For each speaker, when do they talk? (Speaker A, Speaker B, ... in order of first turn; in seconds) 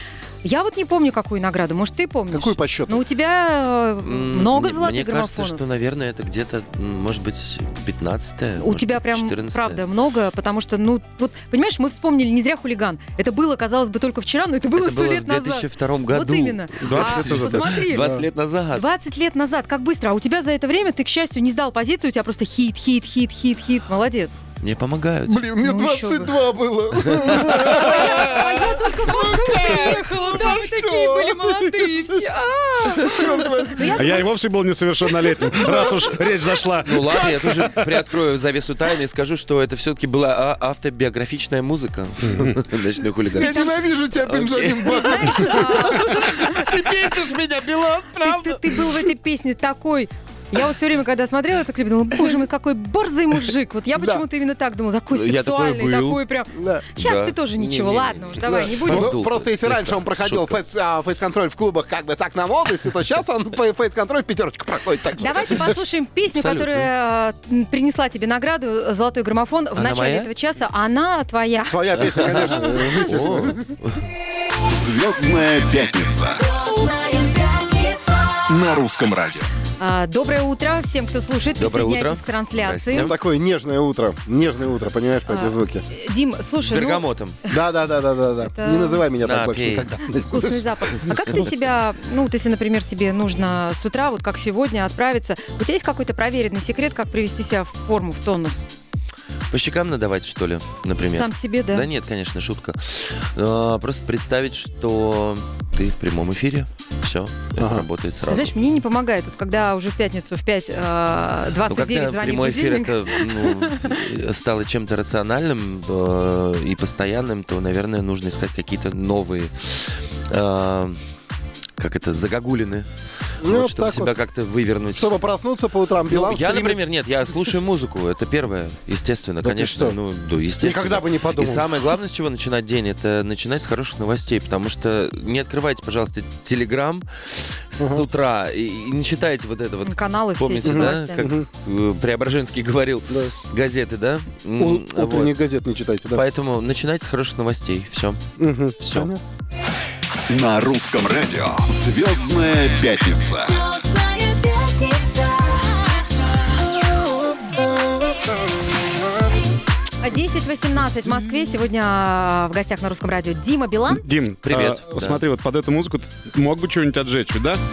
Speaker A: 0.4-5.6, 8.6-18.1, 18.7-24.4, 25.6-26.4, 27.5-34.3, 43.4-43.8, 44.9-46.7, 48.2-59.1, 65.2-72.7, 79.8-83.1, 85.3-87.0, 88.5-89.0, 90.3-98.7, 101.1-101.9, 108.3-114.0, 139.8-141.3, 160.0-164.0
Speaker B: 2.3-3.0, 25.3-32.2, 32.9-34.2, 35.6-36.0, 43.3-49.1, 54.0-54.2, 56.5-56.8, 58.4-65.8, 71.7-73.7, 82.9-85.8, 87.5-90.7, 107.6-107.8, 123.4-124.1, 125.0-126.8, 129.4-130.0, 130.6-131.6, 137.8-138.1, 140.6-141.4, 144.6-146.2, 148.4-149.2
Speaker C: 4.0-9.8, 14.7-18.8, 24.6-25.4, 27.1-28.1, 36.8-46.2, 55.1-56.2, 57.0-60.6, 66.3-66.9, 69.8-70.3, 72.0-74.0, 81.6-83.2, 86.6-87.4, 89.2-89.9, 99.5-108.5, 111.7-121.0, 121.8-122.9, 123.4-125.1, 126.1-145.4, 146.1-148.2, 148.8-149.1, 164.4-165.2
Speaker D: 16.8-17.7, 33.9-37.9, 42.2-42.6, 163.9-167.6
Speaker E: 74.6-76.6, 78.4-79.5, 150.3-153.9